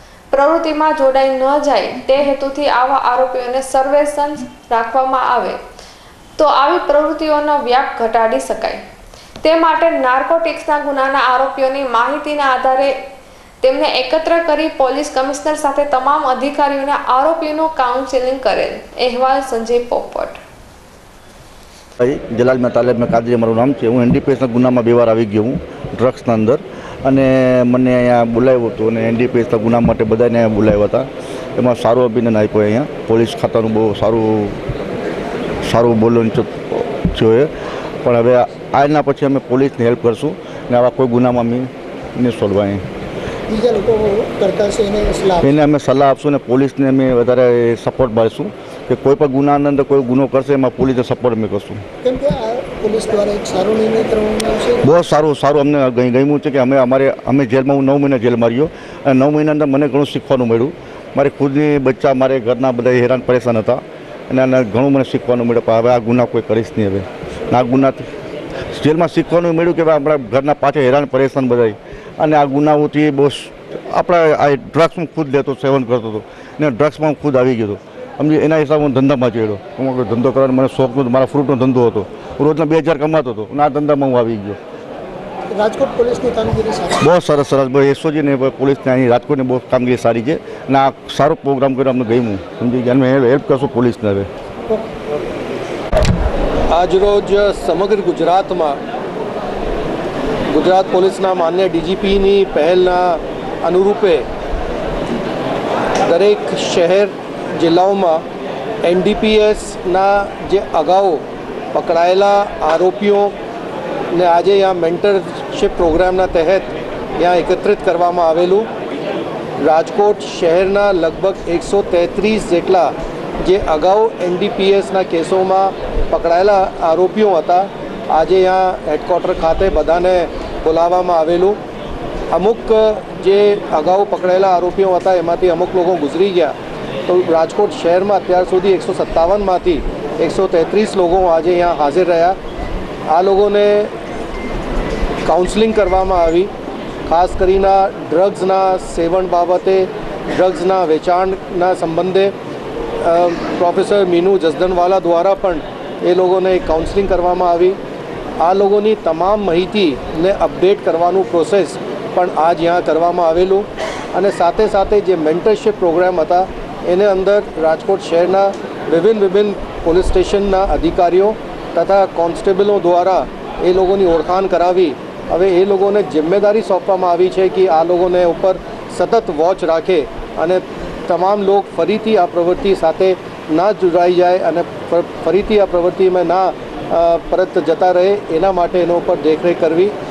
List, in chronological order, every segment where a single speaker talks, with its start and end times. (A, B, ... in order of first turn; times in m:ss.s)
0:00.3-0:05.6 A
0:06.4-0:08.8 A
0:09.4-0:13.0 A
0:13.6-0:20.4 A
0:22.0-0:34.6 B
0:35.6-0:37.5 B
0:38.0-0:42.8 B
0:43.5-0:45.5 C
0:45.4-0:51.8 B
0:52.0-0:54.9 C
0:54.8-1:08.0 B
1:08.7-1:24.6 B
1:25.5-1:27.0 C
1:27.0-1:34.3 B
1:36.7-1:38.8 D
1:40.5-1:44.2 D
1:46.0-1:48.2 D
1:48.8-1:53.3 D
1:54.1-1:58.7 D
1:59.6-2:11.6 D
2:12.3-2:22.4 D
2:23.1-2:23.9 D
2:25.2-2:26.5 D
2:27.1-2:32.3 D
2:33.0-2:37.8 D
2:38.4-3:09.9 D